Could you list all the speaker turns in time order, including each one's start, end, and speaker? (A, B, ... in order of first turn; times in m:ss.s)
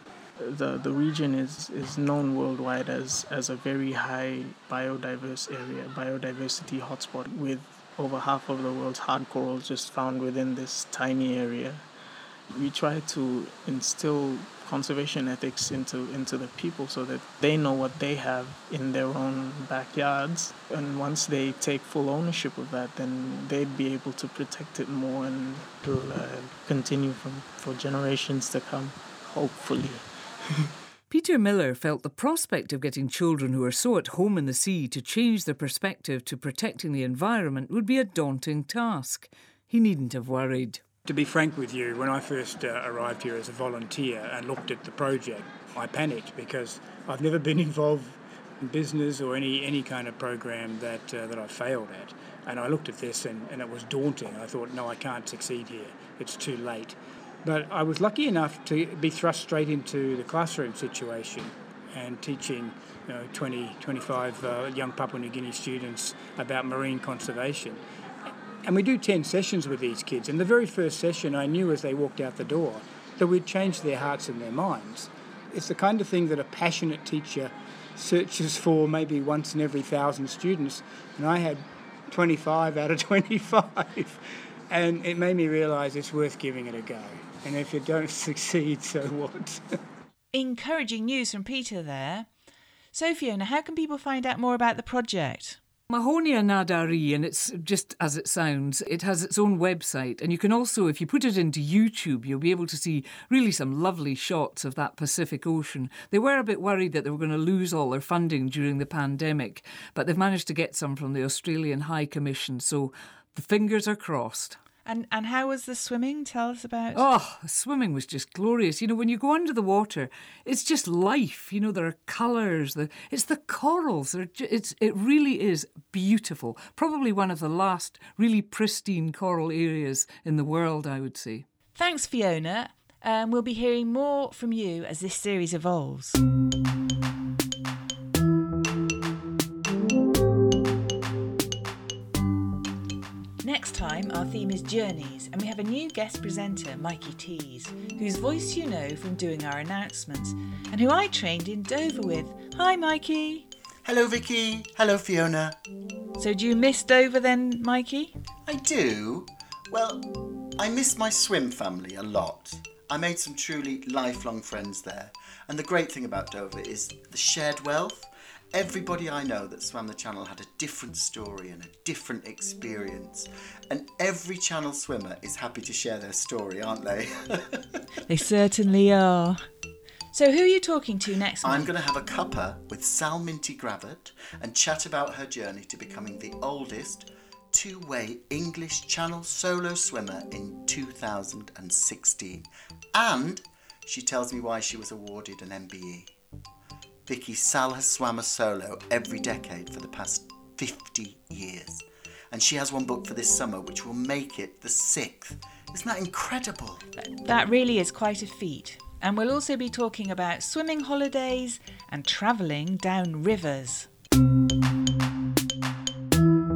0:00.4-0:11.9 A
0:12.5-0:30.1 A
0:31.1-0:40.8 B
0:41.0-1:07.8 C
1:08.6-1:29.6 C
1:30.3-1:32.3 D
1:32.9-1:35.6 D
1:35.9-1:54.6 B
1:54.8-1:57.0 D
1:57.0-2:11.5 B
2:11.8-2:16.2 D
2:23.4-2:33.5 D
2:33.8-2:35.6 E
2:36.2-2:38.1 D
2:38.5-2:57.8 E
2:58.1-2:59.5 D
3:00.1-3:01.7 D
3:01.4-3:16.1 E
3:17.1-3:26.9 E
3:27.0-3:33.9 D